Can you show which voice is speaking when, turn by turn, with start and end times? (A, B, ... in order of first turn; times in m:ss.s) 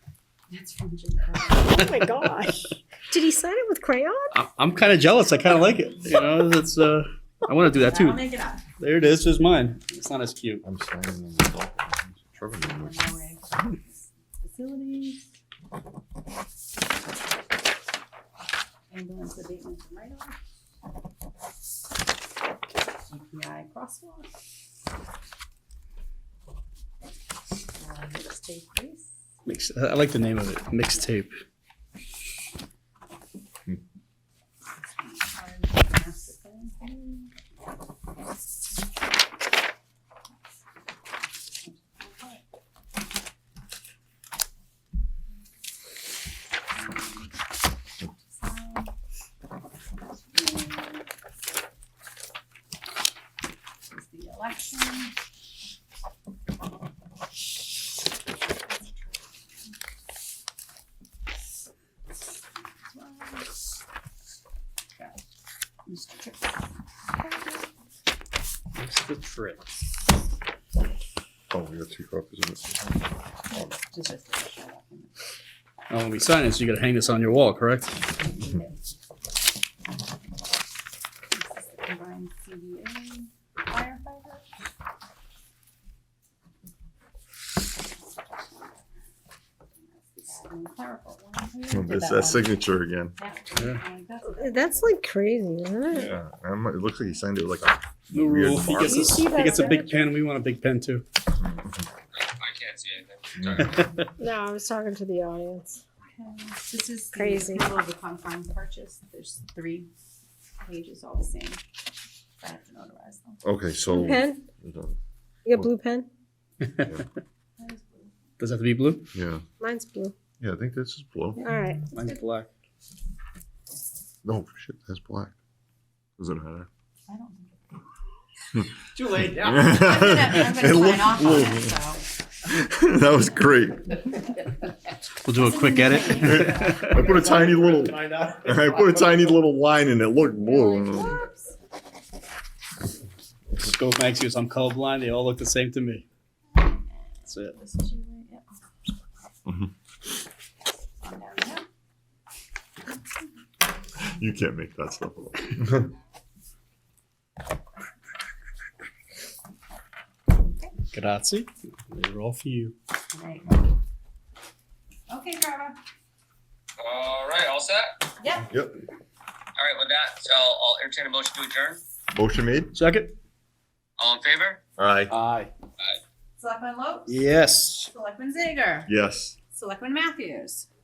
0:00.5-0:01.8 A
0:01.7-0:04.3 B
0:01.8-0:02.3 C
0:04.3-0:08.2 C
0:07.8-0:08.6 A
0:08.8-0:10.6 C
0:10.6-0:13.1 D
0:12.6-0:15.3 A
0:18.9-0:20.4 A
0:23.0-0:24.3 A
0:27.7-0:29.1 A
0:29.4-0:31.3 C
0:34.8-0:37.3 A
0:41.6-0:42.4 A
0:46.8-0:47.3 A
0:48.2-0:48.9 A
0:50.3-0:51.1 A
0:53.9-0:55.2 A
0:58.6-0:59.1 A
1:02.8-1:03.5 A
1:05.9-1:06.6 A
1:07.2-1:07.6 A
1:08.8-1:09.7 C
1:11.5-1:13.0 D
1:13.5-1:15.1 A
1:15.9-1:18.0 C
1:18.1-1:18.8 A
1:21.3-1:24.5 A
1:28.0-1:28.8 A
1:29.8-1:32.6 A
1:31.7-1:33.1 D
1:33.2-1:34.8 A
1:34.4-1:36.1 B
1:35.9-1:39.3 D
1:38.1-1:41.0 C
1:38.7-1:40.1 B
1:41.4-1:41.8 D
1:42.1-1:43.9 E
1:43.4-1:43.7 D
1:43.7-1:44.0 C
1:44.2-1:45.8 B
1:46.1-1:49.9 A
1:47.1-1:47.7 B
1:50.6-1:51.6 A
1:52.4-1:53.4 A
1:53.4-1:55.0 D
1:53.9-1:54.4 B
1:55.4-1:56.1 B
1:56.6-1:56.9 C
1:57.6-1:58.2 A
1:58.4-1:59.1 C
1:59.1-1:59.4 D
1:59.6-2:00.1 B
2:00.4-2:01.5 D
2:01.4-2:01.9 B
2:01.9-2:02.5 C
2:04.2-2:05.3 D
2:06.2-2:06.7 D
2:07.1-2:07.6 A
2:09.0-2:09.7 C
2:09.1-2:11.8 D
2:09.7-2:12.0 A
2:12.5-2:14.1 D
2:15.2-2:19.1 C
2:15.4-2:16.9 A
2:16.2-2:21.2 D
2:20.4-2:21.5 A
2:23.6-2:26.1 C
2:26.6-2:28.5 A
2:27.3-2:27.6 C
2:31.0-2:31.7 A
2:34.0-2:35.9 D
2:40.5-2:40.7 A
2:40.9-2:42.8 C
2:43.1-2:43.5 A
2:45.1-2:45.8 A
2:46.8-2:48.0 E
2:48.2-2:48.5 A
2:48.5-2:48.8 D
2:49.6-2:51.8 E
2:52.1-2:52.7 D
2:52.7-2:53.1 C
2:54.0-2:54.6 E
2:54.8-2:55.1 D
2:55.1-2:55.5 C
2:56.4-2:57.2 A
2:57.1-2:57.9 C
2:57.8-2:58.9 A
2:58.9-2:59.4 D
2:59.5-3:00.7 A